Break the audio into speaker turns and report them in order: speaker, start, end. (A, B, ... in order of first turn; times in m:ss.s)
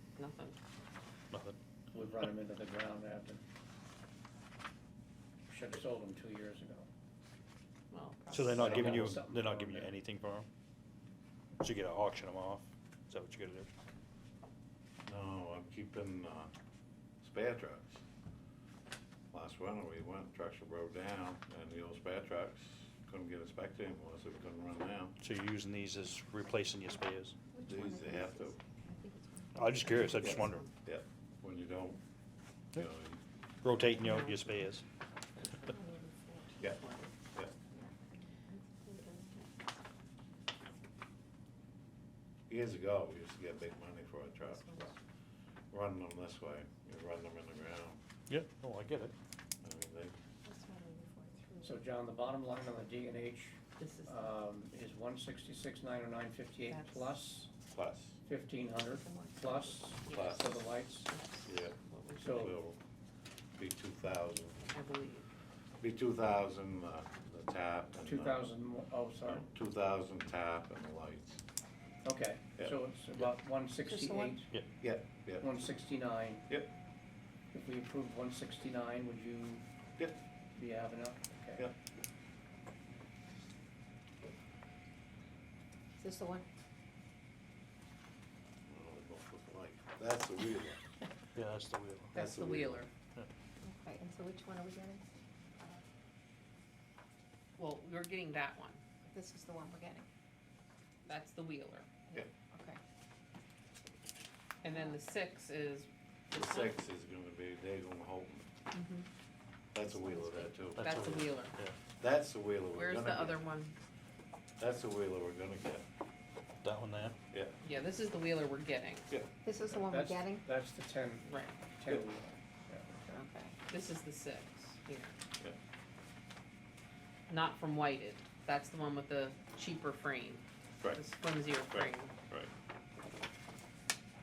0:00.2-0:00.6 A
0:01.3-0:01.6 B
0:01.9-0:03.4 C
0:05.5-0:06.9 C
0:07.9-0:08.7 A
0:08.3-0:10.5 B
0:08.5-0:09.9 C
0:08.6-0:09.2 D
0:11.6-0:13.7 B
0:15.1-0:16.5 D
0:17.2-0:18.0 D
0:19.3-0:25.2 D
0:25.2-0:27.4 B
0:27.5-0:30.4 E
0:27.6-0:28.6 D
0:29.6-0:30.7 B
0:30.2-0:32.0 D
0:32.8-0:33.2 D
0:33.6-0:34.8 B
0:34.0-0:34.6 A
0:35.4-0:35.8 A
0:35.7-0:36.6 E
0:36.6-0:37.1 A
0:37.7-0:39.4 E
0:42.5-0:44.9 D
0:45.7-0:48.0 D
0:48.3-0:49.1 B
0:49.6-0:50.2 D
0:50.4-0:51.8 E
0:51.6-0:57.5 C
0:53.8-0:54.3 A
0:56.7-0:57.1 A
0:57.7-0:58.2 D
0:58.3-1:01.1 C
0:59.0-0:59.6 E
1:00.0-1:00.4 A
1:00.1-1:00.6 D
1:01.1-1:02.5 A
1:01.4-1:02.8 D
1:02.2-1:02.6 C
1:03.6-1:04.6 D
1:04.7-1:05.3 A
1:05.8-1:08.4 D
1:08.0-1:09.5 C
1:09.2-1:11.4 D
1:12.0-1:14.5 C
1:13.8-1:14.4 E
1:14.8-1:15.5 D
1:15.4-1:16.5 C
1:17.5-1:19.6 C
1:20.6-1:21.7 C
1:26.0-1:26.5 E
1:28.7-1:30.8 D
1:31.4-1:32.2 B
1:32.1-1:32.9 D
1:32.1-1:32.9 A
1:33.6-1:35.0 E
1:37.6-1:38.8 A
1:39.1-1:40.1 E
1:41.0-1:41.9 A
1:42.5-1:42.8 E
1:44.6-1:46.7 A
1:46.3-1:48.5 D
1:48.7-1:49.1 E
1:49.7-1:50.9 D
1:50.0-1:50.5 E
1:50.8-1:51.8 B
1:50.8-1:51.5 A
1:52.0-1:53.4 D
1:52.7-1:53.8 A
1:54.6-1:55.9 D
1:56.6-1:57.2 B
1:57.3-1:57.6 D
1:57.6-1:59.1 A
1:59.4-2:00.5 E
1:59.7-2:03.2 C
2:01.3-2:01.6 A
2:03.1-2:03.6 E
2:03.7-2:05.1 A
2:07.3-2:12.1 A
2:11.7-2:12.5 D